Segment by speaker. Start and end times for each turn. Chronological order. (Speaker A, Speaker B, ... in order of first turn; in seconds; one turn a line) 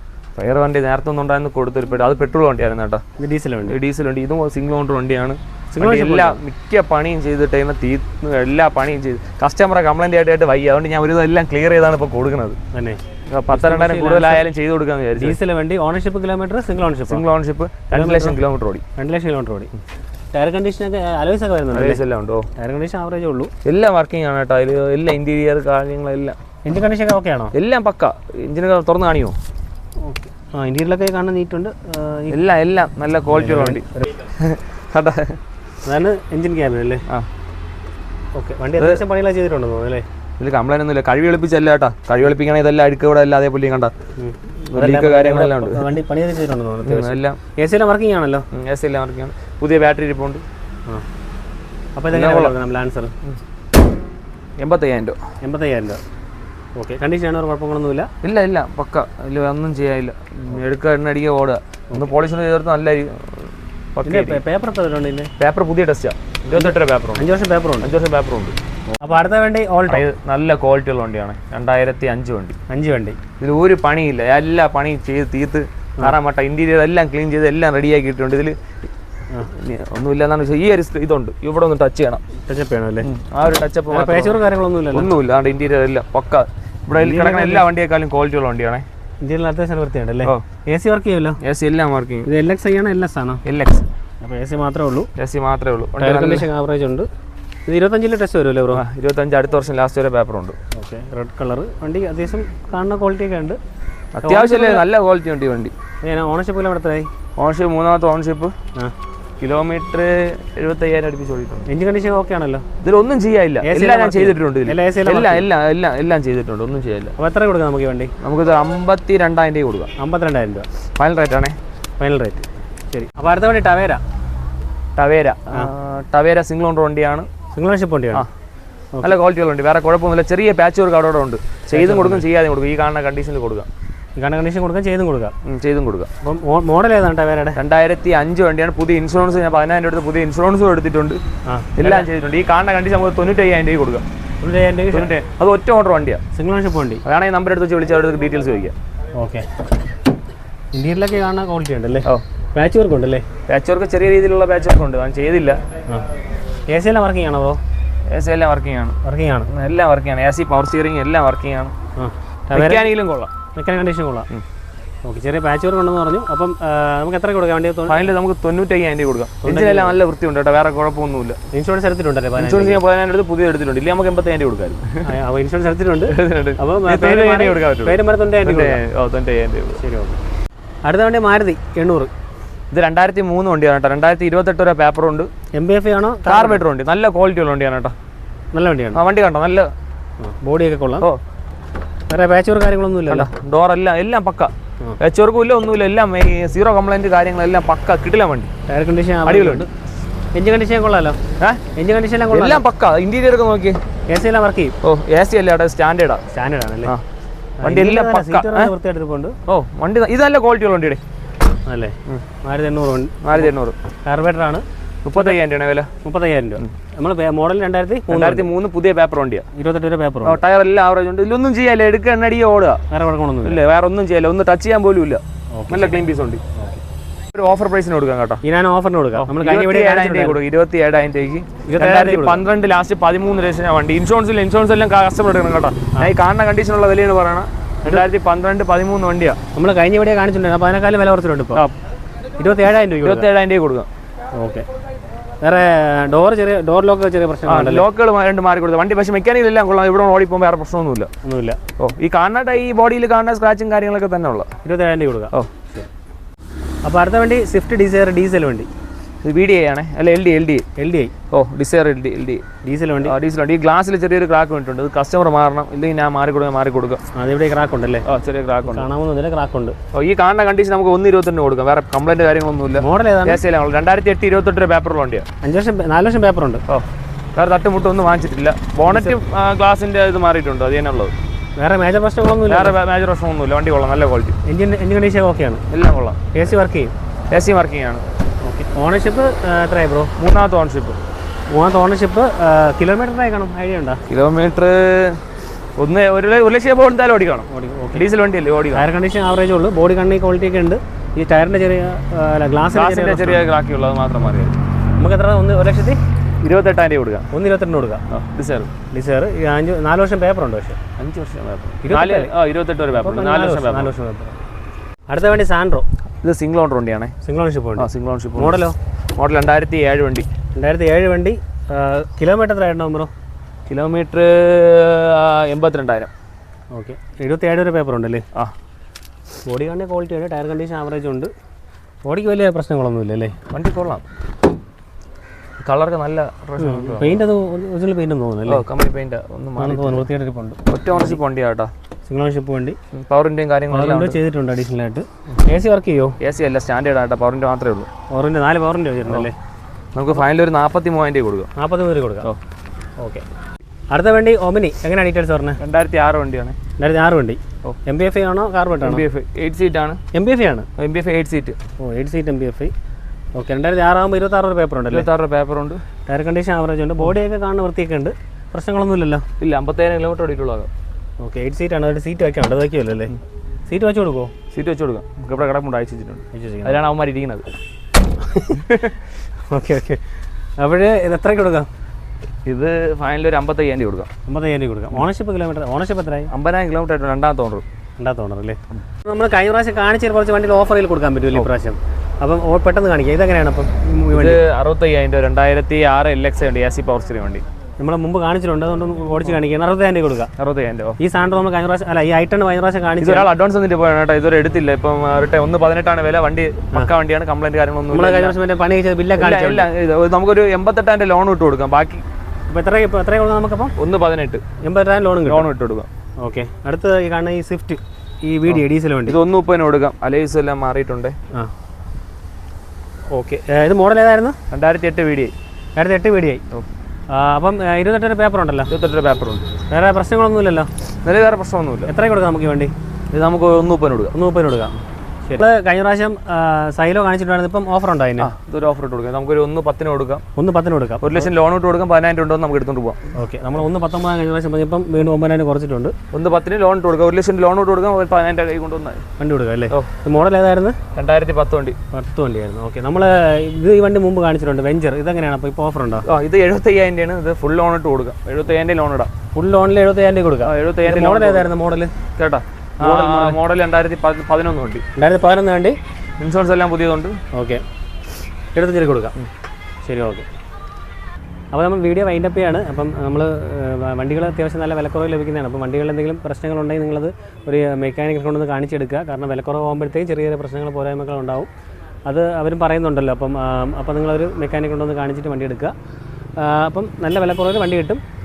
Speaker A: 0.3-3.0
Speaker B: 3.2-3.8
Speaker A: 3.6-12.6
Speaker B: 5.7-6.4
Speaker B: 12.7-14.4
Speaker A: 13.3-15.4
Speaker B: 15.2-17.2
Speaker A: 17.1-18.8
Speaker B: 17.9-18.4
Speaker B: 18.9-19.7
Speaker B: 20.3-22.0
Speaker A: 21.7-22.5
Speaker B: 22.6-23.5
Speaker A: 23.6-26.4
Speaker B: 26.6-27.5
Speaker A: 27.5-29.4
Speaker B: 30.0-32.4
Speaker A: 32.3-35.4
Speaker B: 33.3-34.1
Speaker B: 35.8-37.0
Speaker B: 38.4-40.0
Speaker A: 40.4-43.9
Speaker B: 44.2-48.5
Speaker A: 44.7-45.9
Speaker A: 46.8-47.4
Speaker A: 48.5-50.4
Speaker B: 52.0-53.1
Speaker A: 52.1-52.5
Speaker A: 54.6-55.2
Speaker B: 55.4-56.0
Speaker B: 56.8-58.1
Speaker A: 58.2-64.4
Speaker B: 64.0-65.3
Speaker A: 65.4-67.3
Speaker B: 66.5-67.9
Speaker A: 67.8-68.5
Speaker B: 69.0-70.0
Speaker A: 69.9-72.5
Speaker B: 72.7-73.2
Speaker A: 73.4-78.5
Speaker A: 79.5-82.2
Speaker B: 82.5-83.1
Speaker A: 83.0-84.4
Speaker B: 83.9-85.1
Speaker A: 84.9-88.8
Speaker B: 86.9-87.7
Speaker B: 89.2-91.4
Speaker A: 91.4-92.3
Speaker B: 92.2-93.4
Speaker A: 93.4-93.9
Speaker B: 94.2-95.1
Speaker A: 95.2-96.5
Speaker B: 96.0-97.1
Speaker B: 97.7-98.8
Speaker A: 98.7-100.6
Speaker B: 100.7-103.6
Speaker A: 104.1-105.7
Speaker B: 104.2-104.8
Speaker B: 106.0-107.1
Speaker A: 107.4-108.5
Speaker A: 109.4-111.7
Speaker B: 111.7-112.6
Speaker A: 112.8-117.1
Speaker B: 113.6-115.5
Speaker B: 117.2-118.1
Speaker A: 118.2-119.9
Speaker B: 120.0-120.7
Speaker A: 121.0-121.5
Speaker B: 122.0-124.0
Speaker A: 125.0-127.3
Speaker B: 127.5-128.2
Speaker A: 129.0-133.7
Speaker B: 131.7-132.2
Speaker B: 134.2-135.3
Speaker A: 135.4-136.1
Speaker B: 136.2-137.6
Speaker A: 137.6-141.2
Speaker B: 141.5-142.1
Speaker A: 141.8-144.0
Speaker B: 144.4-145.1
Speaker A: 144.9-146.2
Speaker B: 146.3-147.0
Speaker A: 147.0-148.7
Speaker B: 149.2-149.6
Speaker B: 150.7-153.2
Speaker A: 153.5-155.6
Speaker B: 156.7-157.6
Speaker A: 158.1-159.0
Speaker B: 159.0-159.5
Speaker A: 159.5-161.7
Speaker B: 162.0-162.9
Speaker A: 162.5-163.3
Speaker B: 163.5-164.3
Speaker B: 165.1-168.0
Speaker A: 167.9-171.4
Speaker B: 169.4-170.0
Speaker B: 171.5-172.8
Speaker A: 172.4-175.0
Speaker B: 175.0-178.8
Speaker A: 176.1-179.8
Speaker B: 179.8-180.2
Speaker B: 180.9-182.1
Speaker A: 182.7-185.3
Speaker B: 185.6-186.6
Speaker A: 186.2-187.9
Speaker B: 188.5-189.0
Speaker A: 188.9-189.7
Speaker B: 190.2-191.1
Speaker B: 192.1-193.3
Speaker A: 193.1-198.5
Speaker B: 198.7-199.7
Speaker A: 199.2-199.7
Speaker B: 200.3-201.2
Speaker B: 201.7-202.6
Speaker A: 202.3-203.8
Speaker B: 204.1-204.8
Speaker A: 204.8-206.2
Speaker B: 206.3-206.9
Speaker B: 207.6-209.4
Speaker A: 207.6-208.7
Speaker A: 209.5-211.0
Speaker B: 211.7-213.5
Speaker A: 213.2-213.8
Speaker B: 214.1-214.6
Speaker A: 215.0-215.9
Speaker B: 216.0-218.5
Speaker A: 218.1-219.5
Speaker B: 219.5-220.4
Speaker A: 220.2-222.8
Speaker B: 222.9-223.6
Speaker A: 223.4-226.4
Speaker B: 225.6-226.8
Speaker A: 227.3-228.4
Speaker B: 228.4-230.4
Speaker A: 229.2-239.4
Speaker B: 231.7-232.4
Speaker B: 239.5-241.6
Speaker B: 242.4-243.2
Speaker A: 243.0-243.9
Speaker B: 244.4-244.6
Speaker B: 245.4-247.8
Speaker A: 247.4-251.1
Speaker B: 251.2-251.6
Speaker A: 251.8-254.5
Speaker B: 254.6-255.9
Speaker B: 256.9-258.7
Speaker A: 259.2-260.6
Speaker B: 260.8-261.1
Speaker A: 261.3-262.4
Speaker B: 262.6-263.1
Speaker A: 263.0-267.0
Speaker B: 267.1-268.1
Speaker A: 268.1-268.9
Speaker B: 268.6-269.8
Speaker A: 269.9-275.2
Speaker B: 272.8-273.4
Speaker B: 275.4-276.6
Speaker A: 276.7-281.1
Speaker B: 278.9-279.2
Speaker B: 281.6-282.8
Speaker A: 282.4-284.4
Speaker B: 284.4-285.6
Speaker A: 285.7-286.4
Speaker B: 286.3-286.9
Speaker A: 287.3-288.0
Speaker B: 288.4-290.1
Speaker A: 290.2-291.0
Speaker B: 291.5-294.0
Speaker A: 294.1-295.2
Speaker A: 295.8-298.9
Speaker B: 297.5-298.0
Speaker B: 298.7-303.5
Speaker A: 302.7-304.6
Speaker B: 305.0-306.0
Speaker A: 306.4-307.3
Speaker B: 307.3-308.0
Speaker A: 308.1-308.7
Speaker B: 308.9-310.8
Speaker A: 311.0-313.9
Speaker B: 311.8-312.3
Speaker B: 312.9-314.4
Speaker B: 315.1-315.9
Speaker A: 316.2-317.1
Speaker B: 317.2-318.8
Speaker A: 317.8-318.6
Speaker A: 319.2-320.3
Speaker B: 320.5-323.1
Speaker A: 323.7-326.1
Speaker B: 326.7-328.2
Speaker B: 329.4-331.3
Speaker B: 332.1-333.4
Speaker A: 333.5-334.0
Speaker A: 335.6-337.2
Speaker B: 336.6-338.6
Speaker A: 338.4-340.1
Speaker B: 339.6-341.2
Speaker A: 340.6-341.7
Speaker B: 342.1-342.8
Speaker A: 342.9-344.2
Speaker B: 343.7-346.2
Speaker A: 346.2-347.9
Speaker B: 348.1-349.3
Speaker A: 349.9-351.5
Speaker B: 351.6-352.3
Speaker B: 353.9-355.6
Speaker A: 355.6-356.6
Speaker B: 356.8-359.0
Speaker A: 358.8-360.0
Speaker B: 360.1-360.7
Speaker A: 360.8-361.6
Speaker B: 361.8-362.7
Speaker B: 363.4-365.1
Speaker A: 364.9-365.8
Speaker B: 366.1-369.2
Speaker A: 369.4-370.7
Speaker B: 371.2-373.1
Speaker B: 373.7-374.3
Speaker A: 374.5-377.5
Speaker B: 376.3-376.8
Speaker B: 378.2-378.7
Speaker A: 378.5-378.9
Speaker B: 379.5-380.0
Speaker B: 380.6-381.7
Speaker A: 382.4-384.1
Speaker B: 384.3-386.3
Speaker A: 386.3-387.6
Speaker B: 388.0-394.4
Speaker A: 394.1-397.4
Speaker B: 397.8-400.3
Speaker A: 400.4-401.0
Speaker B: 401.0-403.3
Speaker A: 403.0-408.4
Speaker B: 407.9-409.7
Speaker A: 409.2-412.0
Speaker B: 412.5-413.8
Speaker A: 413.8-414.4
Speaker B: 414.6-415.5
Speaker A: 415.2-415.9
Speaker B: 416.2-419.2
Speaker A: 418.5-421.1
Speaker B: 423.1-424.4
Speaker A: 424.5-425.3
Speaker B: 425.8-426.4
Speaker B: 427.1-428.7
Speaker A: 428.7-429.4
Speaker B: 429.7-430.7
Speaker A: 431.0-431.9
Speaker B: 431.9-432.7
Speaker A: 433.1-434.1
Speaker B: 434.1-438.3
Speaker A: 438.2-440.2
Speaker B: 440.4-441.3
Speaker A: 441.0-443.1
Speaker B: 443.1-445.9
Speaker A: 446.1-449.0
Speaker B: 449.2-450.8
Speaker A: 450.9-451.8
Speaker B: 451.9-456.1
Speaker A: 456.1-459.1
Speaker B: 459.4-461.9
Speaker A: 460.4-461.5
Speaker A: 462.2-464.8
Speaker B: 462.8-463.4
Speaker B: 464.9-465.8
Speaker A: 466.2-467.2
Speaker B: 467.3-467.6
Speaker B: 468.5-469.1
Speaker B: 469.9-470.2
Speaker B: 471.5-481.5
Speaker B: 482.1-485.7
Speaker B: 486.4-488.0